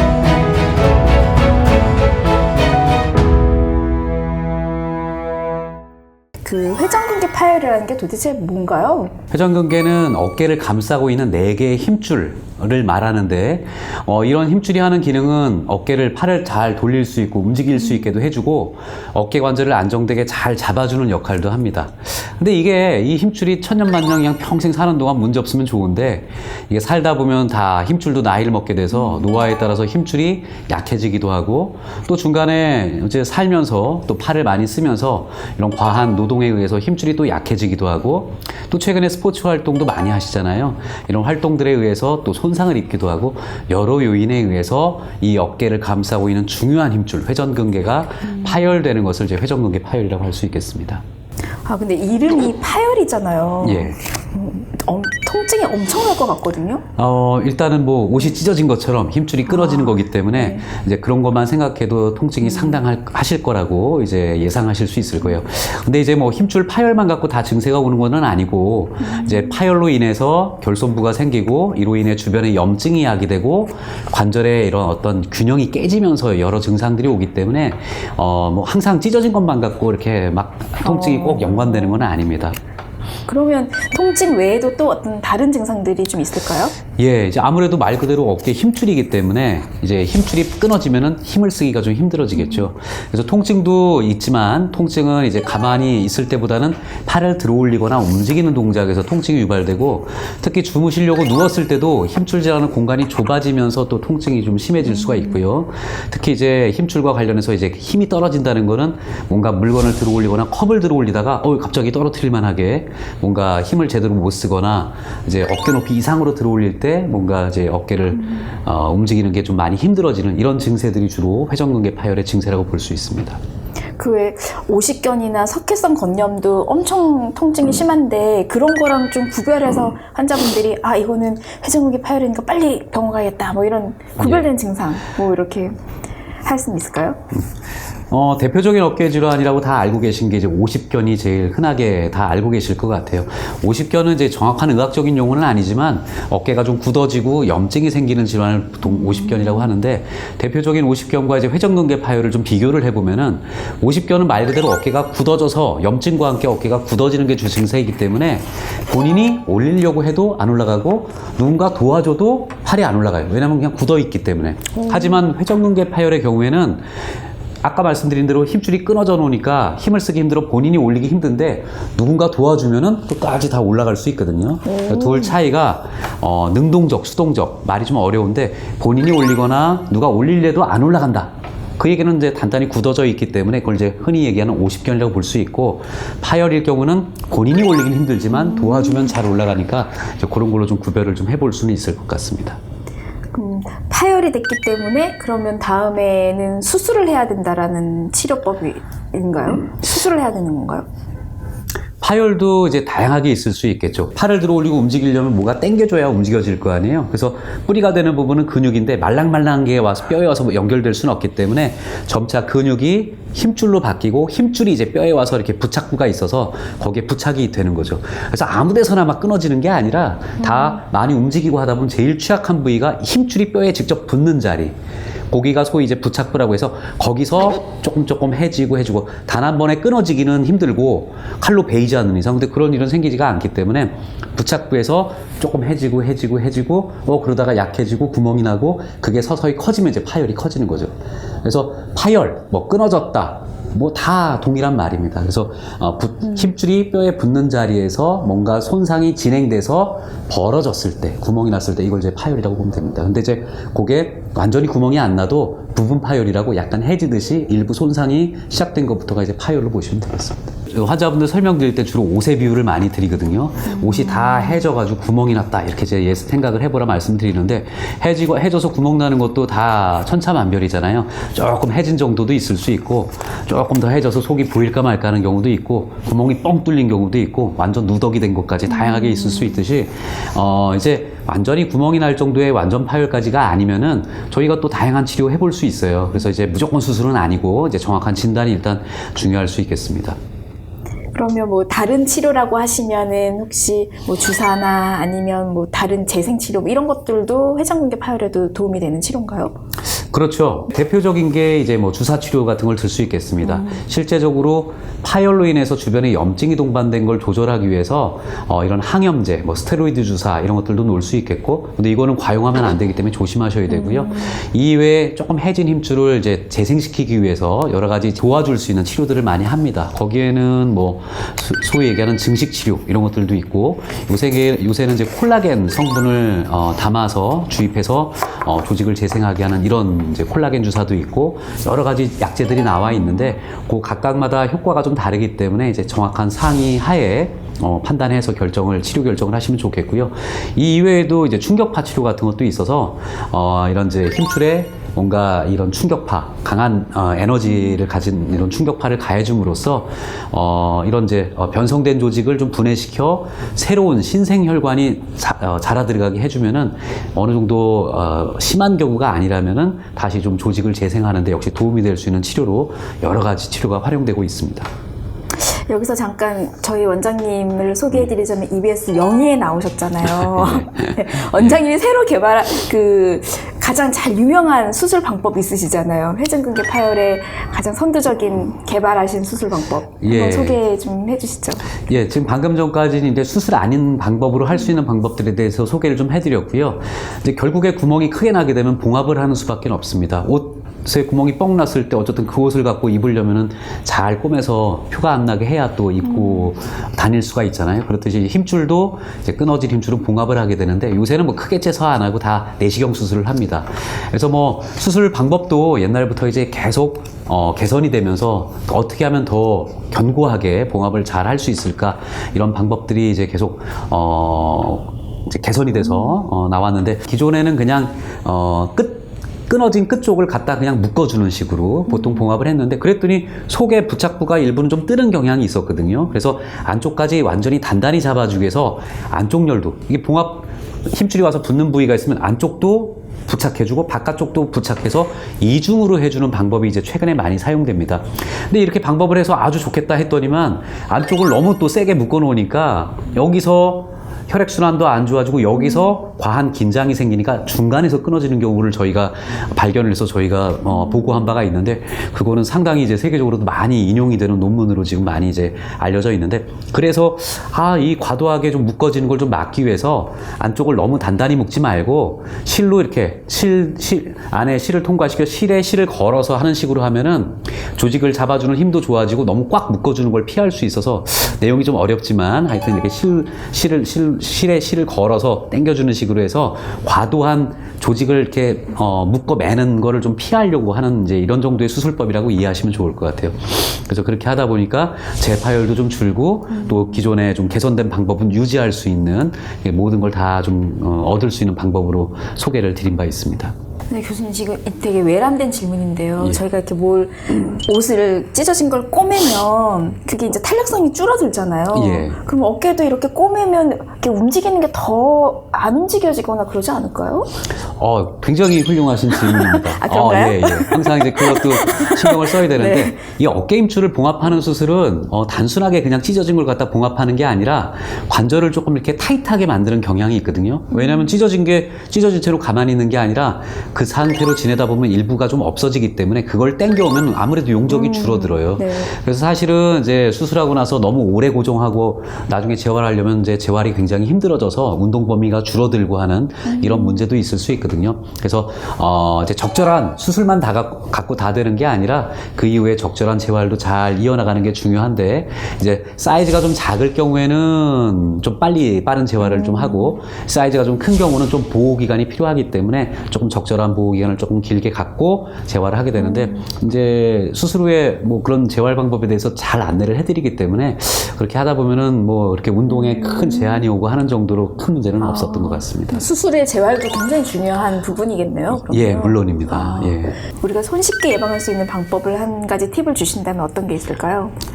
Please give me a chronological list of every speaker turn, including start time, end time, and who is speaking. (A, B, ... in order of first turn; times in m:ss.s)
0:06.4-0:09.2 A
0:09.3-0:51.0 B
0:51.6-0:56.8 A
0:53.6-0:54.0 B
0:57.0-1:22.6 B
0:59.5-1:00.6 A
1:09.1-1:09.4 A
1:20.8-1:22.0 A
1:23.3-1:26.8 A
1:27.0-2:03.4 B
2:04.0-2:15.8 A
2:14.2-2:14.5 B
2:16.4-2:17.2 A
2:18.1-2:46.8 B
2:44.8-2:45.2 A
2:47.6-3:12.6 B
2:54.7-2:55.4 A
3:08.6-3:09.0 A
3:13.3-3:20.9 A
3:22.0-3:44.7 B
3:45.3-4:50.2 B
4:51.1-4:59.6 A
5:00.1-6:04.7 B
6:05.4-6:21.7 A
6:10.2-6:11.6 B
6:20.0-6:20.6 B
6:21.9-8:13.5 B
7:01.9-7:02.2 A
7:25.6-7:25.9 A
7:30.8-7:31.1 A
8:06.6-8:07.0 A
8:13.9-8:27.3 A
8:21.7-8:22.2 B
8:27.8-9:26.0 B
8:29.3-8:33.0 A
8:40.7-8:41.1 A
8:47.7-8:48.9 A
8:56.5-8:57.0 A
9:09.2-9:10.0 A
9:16.0-9:16.3 A
9:23.1-9:23.4 A
9:25.1-9:34.3 A
9:28.5-9:30.2 B